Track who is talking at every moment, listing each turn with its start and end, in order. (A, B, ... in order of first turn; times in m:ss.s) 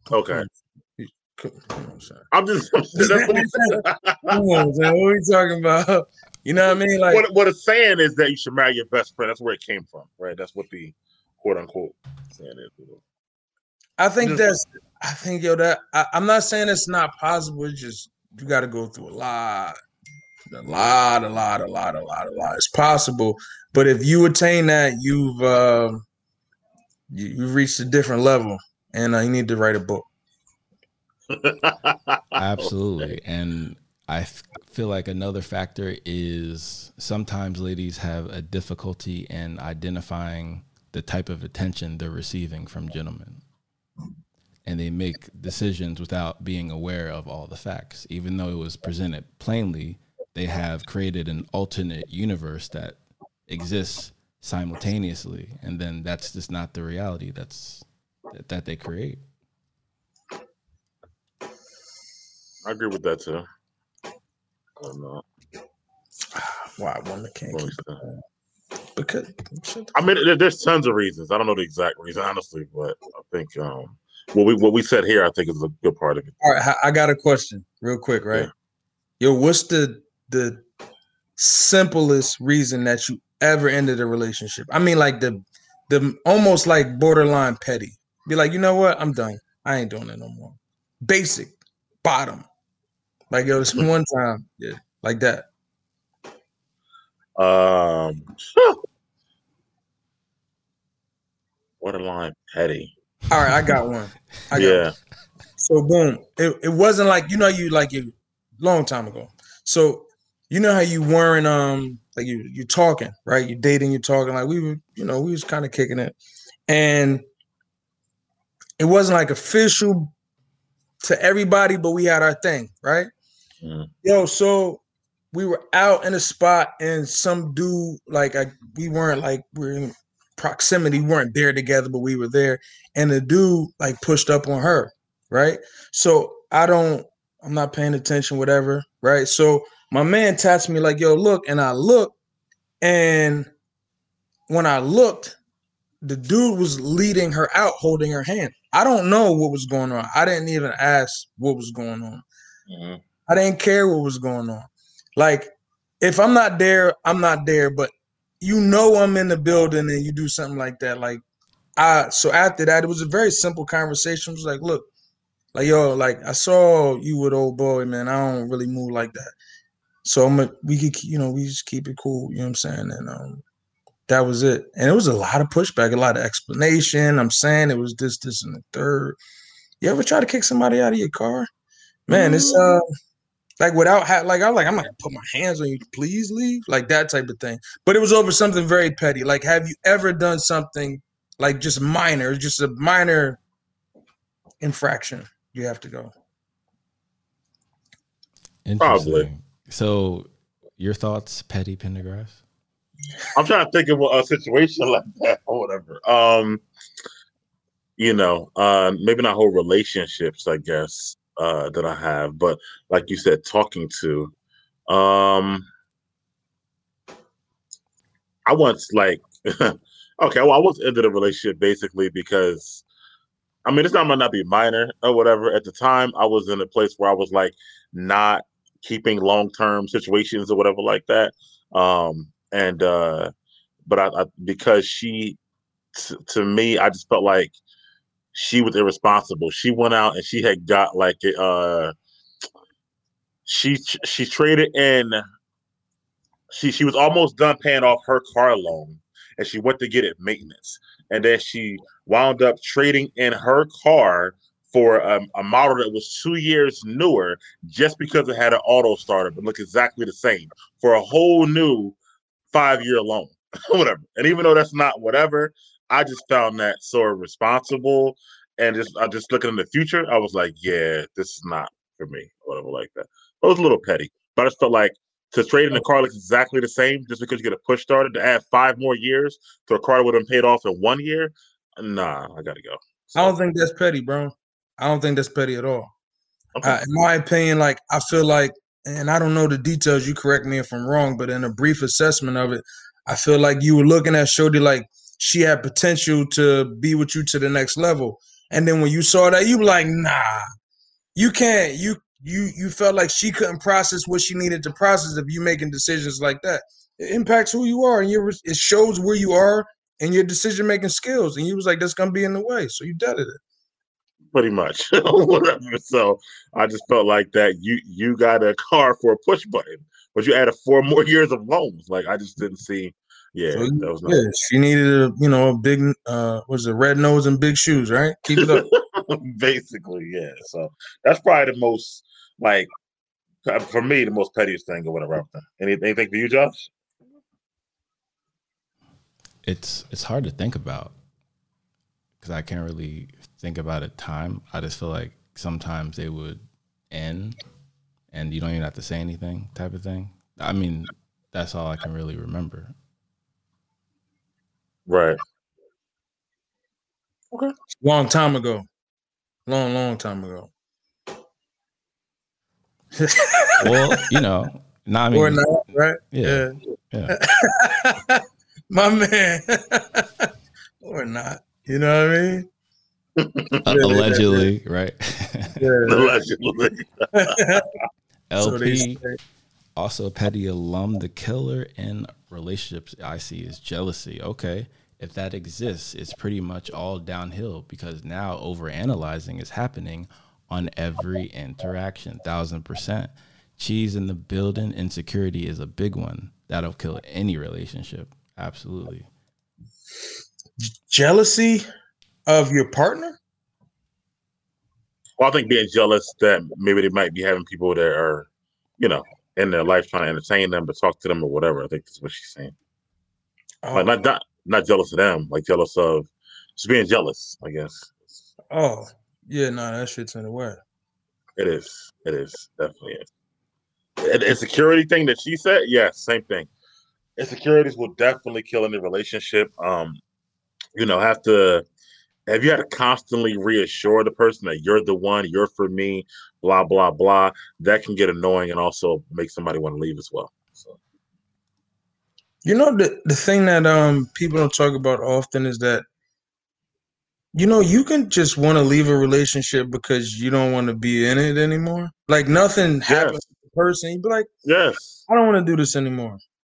0:00.1-0:00.5 A
0:00.3-0:02.2 B
0:02.3-0:04.6 A
0:03.0-0:07.2 B
0:07.1-0:13.0 A
0:14.0-0:19.8 B
0:20.5-0:26.0 B
0:27.1-0:30.1 B
0:31.3-0:33.1 A
0:32.4-0:43.4 C
0:44.7-0:59.2 C
1:02.6-1:03.4 A
1:04.8-1:05.2 A
1:06.4-1:08.1 B
1:07.5-1:08.0 A
1:09.0-1:09.9 B
1:09.9-1:16.4 A
1:16.4-1:18.5 B
1:19.2-1:20.6 B
1:21.4-1:32.5 B
1:33.3-1:35.5 B
1:37.4-1:38.8 A
1:41.8-1:42.9 A
1:43.3-1:44.9 B
1:44.6-1:44.9 A
1:45.6-1:56.2 B
1:56.7-1:57.2 B
1:58.8-2:00.1 B
2:01.0-2:03.1 B
2:03.6-2:03.9 A
2:04.0-2:22.1 B
2:22.8-2:23.5 B
2:24.5-2:25.4 B
2:26.0-2:32.2 B
2:32.7-2:33.0 A
2:33.3-2:41.2 B
2:41.8-2:44.9 B
2:45.5-2:49.3 B
2:50.0-2:53.4 B
2:54.1-2:59.2 B
2:59.8-3:01.5 B
3:02.1-3:02.8 B
3:02.1-3:02.8 A
3:03.6-3:13.4 B
3:14.6-3:16.1 B
3:18.7-3:22.4 C
3:18.8-3:19.3 A
3:23.3-3:26.6 A
3:28.0-3:34.3 A
3:34.9-3:35.7 A
3:38.5-3:42.8 A
3:43.6-3:53.3 A
3:53.9-3:55.4 A
3:56.0-3:57.6 A
3:58.3-4:01.9 A
4:03.5-4:05.2 A
4:06.5-4:22.0 A
4:22.5-4:43.4 A
4:43.2-4:45.9 B
4:46.6-5:00.5 B
5:01.2-5:13.4 B
5:14.3-5:24.2 A
5:23.5-5:28.7 B
5:28.4-5:32.7 A
5:33.4-5:36.7 A
5:39.4-5:40.9 C
5:42.2-5:47.4 C
5:48.1-5:52.7 C
5:54.9-5:55.2 A
5:57.3-5:58.7 B
5:59.5-6:00.5 B
6:03.0-6:04.1 B
6:03.6-6:05.5 C
6:05.1-6:06.6 B
6:06.1-6:07.2 C
6:07.1-6:10.3 B
6:10.8-6:12.5 B
6:13.2-6:13.5 A
6:13.6-6:14.5 B
6:13.6-6:15.6 C
6:15.6-6:16.2 B
6:15.9-6:17.6 A
6:17.1-6:17.7 B
6:18.3-6:19.0 C
6:18.4-6:19.2 B
6:19.8-6:39.1 C
6:40.7-6:41.7 B
6:42.3-6:43.2 B
6:45.2-6:48.3 A
6:48.8-6:52.5 A
6:53.6-6:53.9 B
6:53.7-6:58.2 A
6:58.5-7:00.6 B
7:01.4-7:03.1 A
7:04.0-7:06.5 A
7:07.2-7:10.0 A
7:10.8-7:11.6 A
7:12.3-7:20.8 A
7:22.4-7:25.8 B
7:27.3-7:34.3 B
7:32.9-7:33.2 A
7:34.4-7:35.0 A
7:35.1-7:36.2 B